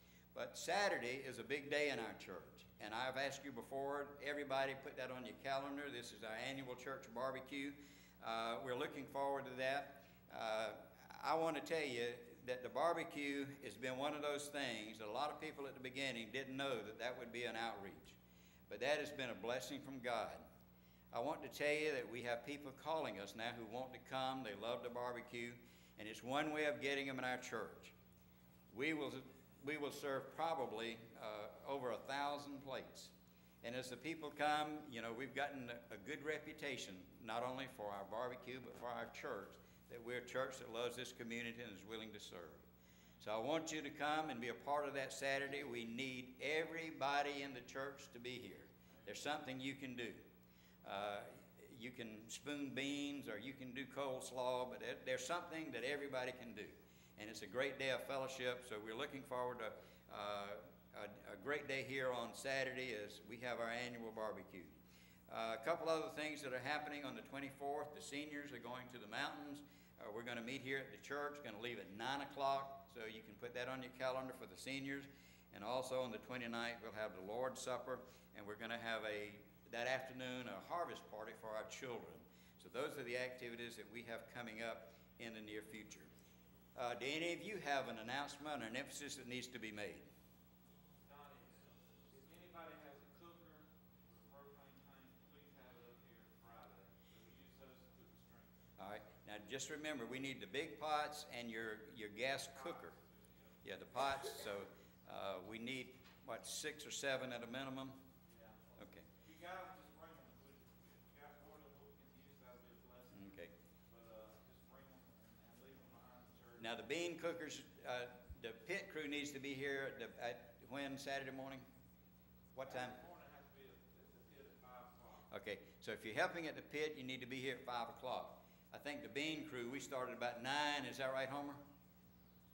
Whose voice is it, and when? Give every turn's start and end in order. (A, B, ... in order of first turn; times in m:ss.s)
0:00.3-0:20.4 A
0:21.1-0:27.9 A
0:28.7-0:42.6 A
0:43.2-0:50.2 A
0:50.8-1:04.8 A
1:05.3-1:26.1 A
1:26.8-1:30.1 A
1:31.1-1:38.5 B
1:38.8-1:43.0 A
1:43.6-1:48.0 A
1:48.8-1:49.1 A
1:49.2-1:53.1 B
1:53.1-1:53.5 A
1:53.9-1:56.6 B
1:56.6-2:01.7 A
2:02.6-2:03.0 A
2:03.0-2:05.2 B
2:05.3-2:11.6 A